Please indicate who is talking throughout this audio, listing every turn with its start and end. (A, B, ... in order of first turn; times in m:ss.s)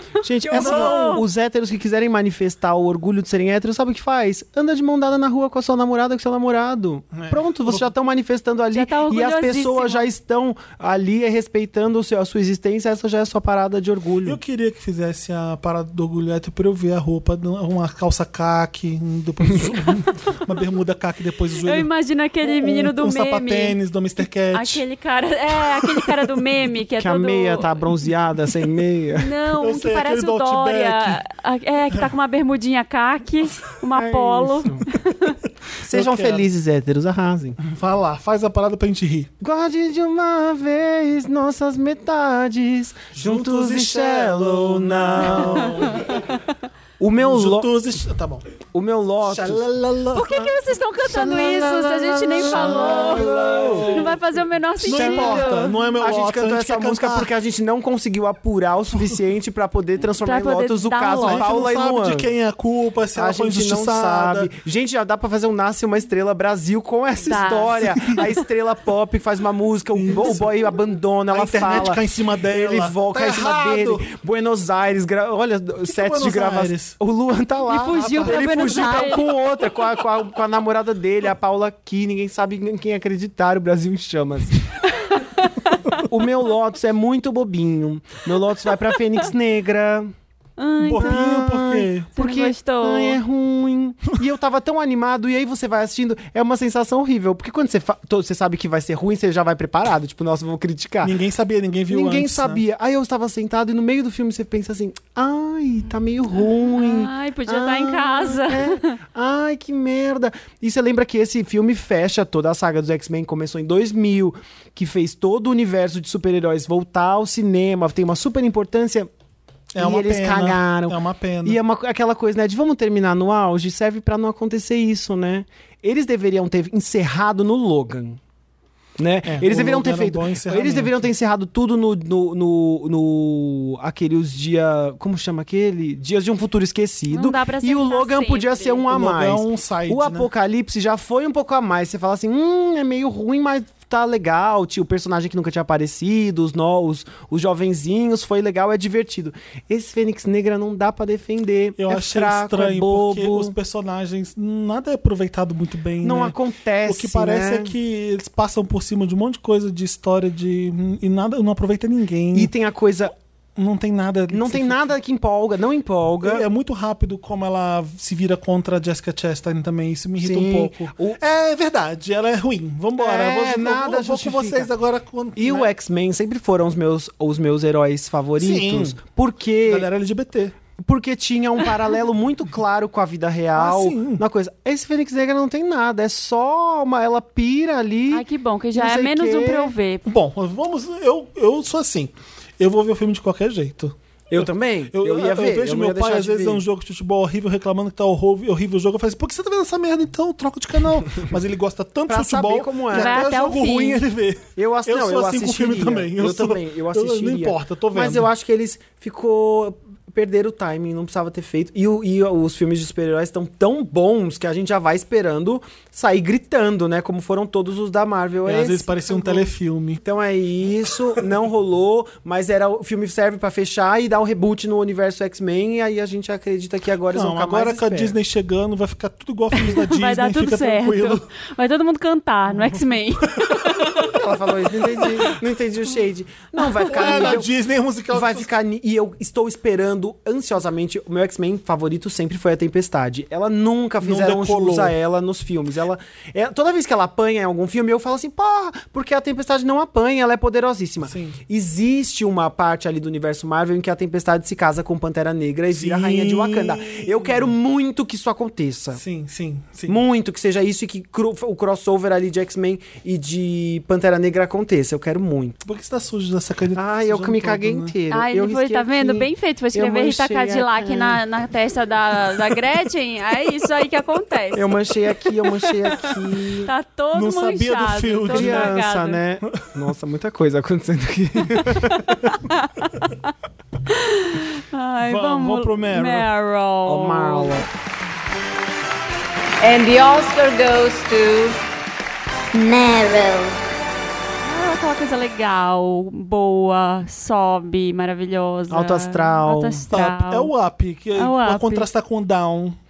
0:00.2-0:14.4 A
0:00.5-0:01.2 B
0:00.5-0:01.2 C
0:07.1-0:07.9 C
0:08.7-0:10.1 B
0:14.2-0:21.9 C
0:21.6-0:23.8 B
0:22.4-0:24.8 C
0:24.5-0:27.8 B
0:25.8-0:26.2 C
0:27.0-0:29.3 A
0:29.1-0:35.4 B
0:29.6-0:31.2 C
0:33.9-0:34.8 A
0:35.8-0:37.6 A
0:35.8-0:36.5 C
0:37.6-0:39.3 C
0:39.4-0:46.1 A
0:43.1-0:46.2 C
0:47.0-0:47.7 A
0:47.2-0:48.4 C
0:48.7-0:49.6 A
0:49.2-0:50.4 C
0:50.1-0:53.3 B
0:51.1-0:54.1 A
0:52.4-0:54.2 C
0:53.9-0:55.7 B
0:54.8-0:57.3 C
0:54.8-1:02.3 A
1:00.2-1:01.7 B
1:01.1-1:04.5 C
1:03.1-1:24.6 A
1:07.2-1:08.4 B
1:07.8-1:08.2 C
1:09.9-1:10.7 C
1:11.3-1:14.1 C
1:15.8-1:17.0 C
1:17.7-1:19.3 B
1:17.9-1:19.3 C
1:25.4-1:25.8 B
1:26.1-1:30.1 A
1:30.6-1:31.4 B
1:30.8-1:32.1 C
1:31.0-1:41.1 A
1:32.2-1:33.2 B
1:41.0-1:42.6 C
1:41.9-1:59.1 A
1:46.7-1:49.0 B
1:59.7-2:01.6 C
1:59.8-2:08.2 A
2:09.0-2:33.5 A
2:09.2-2:11.1 C
2:17.1-2:18.9 B
2:18.9-2:20.3 C
2:31.8-2:42.5 C
2:36.0-2:37.7 A
2:42.3-2:43.1 A
2:43.6-2:45.0 C
2:44.3-2:46.4 A
2:46.2-2:55.7 C
2:50.2-2:51.2 A
2:53.0-2:54.7 A
2:55.4-2:59.9 A
2:58.4-2:59.0 C
2:59.6-3:00.6 C
3:00.8-3:08.2 A
3:03.5-3:04.2 C
3:08.1-3:10.0 B
3:08.7-3:09.7 A
3:10.0-3:28.3 C
3:14.3-3:16.6 A
3:22.1-3:23.2 A
3:22.9-3:24.0 B
3:24.6-3:39.5 A
3:38.4-3:40.0 C
3:40.0-3:48.1 A
3:47.1-3:51.2 C
3:49.5-3:54.2 B
3:52.5-3:53.6 C
3:54.1-3:57.5 A
3:56.8-3:57.3 B
3:56.8-3:58.5 C
3:58.1-4:19.0 A
4:04.0-4:05.0 C
4:11.0-4:11.4 C
4:15.7-4:17.5 C
4:18.9-4:20.0 C
4:19.9-4:25.6 A
4:25.6-4:27.9 C
4:26.7-4:31.2 A
4:28.1-4:34.8 B
4:34.5-4:36.7 A
4:35.5-4:39.2 B
4:37.1-4:38.8 C
4:38.3-4:42.1 A
4:41.9-4:43.0 B
4:43.9-4:47.6 B
4:45.0-4:46.3 C
4:46.8-4:47.7 A
4:49.6-4:50.9 D
4:52.5-4:53.6 D
4:54.4-5:00.5 B
4:58.7-4:59.8 A
4:59.9-5:02.8 C
5:01.2-5:01.9 B